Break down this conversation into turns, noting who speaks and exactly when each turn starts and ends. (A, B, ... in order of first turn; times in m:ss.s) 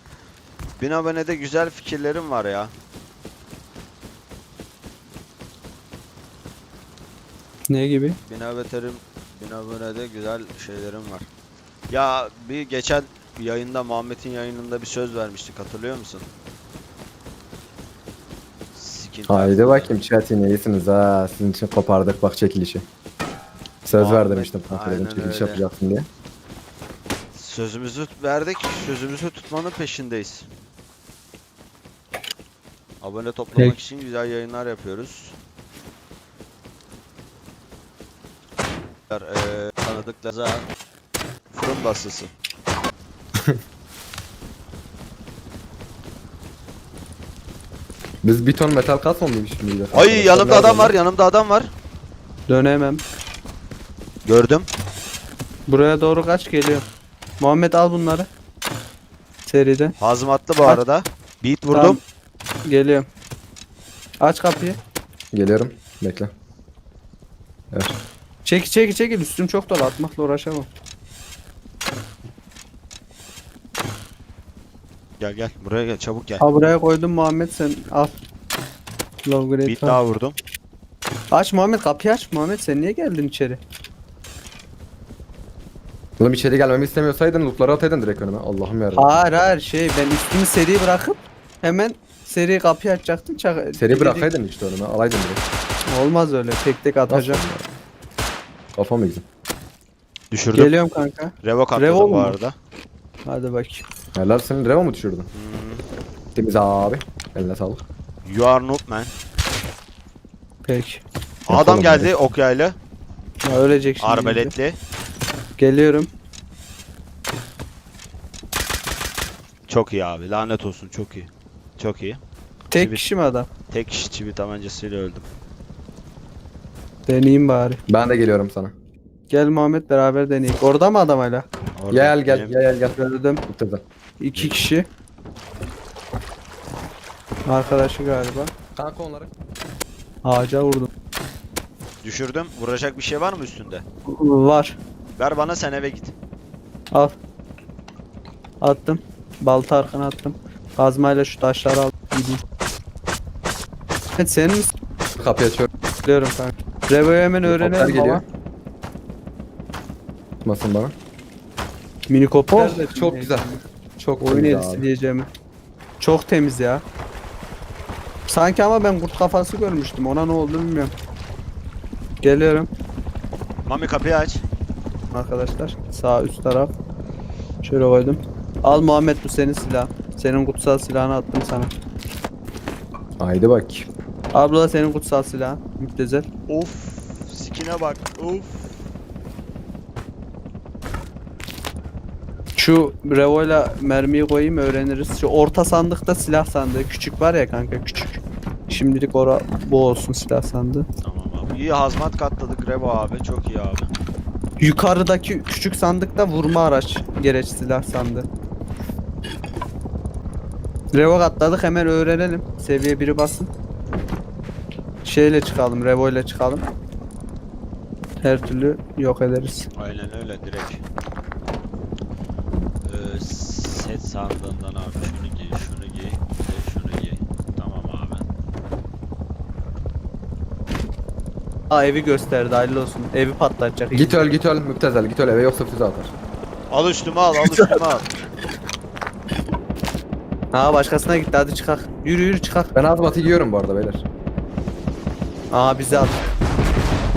0:00.8-0:02.7 A
0:07.7-0:08.2 B
0:08.2-0:11.3 A
0:11.9-0:16.3 A
0:18.7-0:20.0 A
0:19.3-0:22.8 C
0:23.8-0:26.0 C
0:23.9-0:25.6 A
0:27.3-0:30.5 A
0:33.0-0:35.4 A
0:39.1-0:40.7 A
0:41.5-0:42.3 A
0:48.2-0:51.0 C
0:49.9-0:51.7 A
0:52.5-0:53.0 B
0:54.2-0:54.7 A
0:55.7-0:56.8 B
0:57.4-0:58.3 B
0:59.4-0:59.9 B
1:00.0-1:02.0 A
1:01.7-1:02.0 B
1:02.7-1:03.0 B
1:04.2-1:04.8 B
1:05.3-1:06.3 C
1:08.4-1:10.7 B
1:15.2-1:16.4 A
1:16.4-1:18.1 B
1:19.2-1:20.0 B
1:19.6-1:20.4 A
1:21.3-1:23.6 B
1:26.2-1:29.1 C
1:28.9-1:34.3 B
1:33.8-1:35.4 C
1:35.9-1:37.4 B
1:37.1-1:37.7 C
1:38.8-1:39.2 C
1:40.3-1:40.7 A
1:40.5-1:42.4 B
1:41.4-1:42.6 A
1:43.2-1:43.8 B
1:44.1-1:45.3 C
1:45.3-1:45.8 A
1:46.3-1:47.8 C
1:48.2-1:49.1 A
1:50.6-1:51.0 B
1:51.4-1:52.8 A
1:51.5-1:52.1 C
1:53.4-1:54.5 B
1:54.0-1:54.8 A
1:55.6-1:56.1 B
1:59.7-2:02.2 A
2:02.7-2:03.5 B
2:02.7-2:03.0 A
2:03.7-2:05.3 A
2:07.0-2:07.8 B
2:07.9-2:08.7 C
2:09.3-2:11.5 B
2:11.7-2:12.5 A
2:11.9-2:13.8 C
2:13.0-2:13.4 B
2:14.2-2:14.8 B
2:14.3-2:14.6 A
2:17.4-2:18.5 B
2:18.8-2:19.3 C
2:20.2-2:20.9 B
2:22.0-2:23.8 A
2:24.1-2:24.8 B
2:25.2-2:26.1 A
2:28.6-2:32.4 B
2:34.2-2:34.7 B
2:35.2-2:35.7 C
2:36.0-2:38.2 B
2:37.4-2:38.2 C
2:40.4-2:40.9 C
2:42.1-2:43.5 B
2:42.5-2:44.8 C
2:44.2-2:45.3 B
2:46.0-2:46.8 B
2:48.3-2:50.9 B
2:52.2-2:52.7 B
2:53.6-2:54.4 A
2:55.1-2:56.7 B
2:57.6-3:01.7 B
3:03.2-3:03.9 C
3:04.3-3:06.2 B
3:06.5-3:08.8 A
3:12.6-3:20.8 B
3:21.0-3:23.9 A
3:24.6-3:28.2 B
3:30.9-3:33.5 B
3:35.0-3:36.6 B
3:38.2-3:39.7 B
3:39.8-3:40.8 A
3:42.8-3:48.3 A
3:51.7-3:54.3 B
3:53.9-3:56.1 C
3:56.7-3:58.1 A
3:57.4-3:57.8 B
4:00.5-4:02.7 B
4:02.7-4:04.0 C
4:05.5-4:06.2 B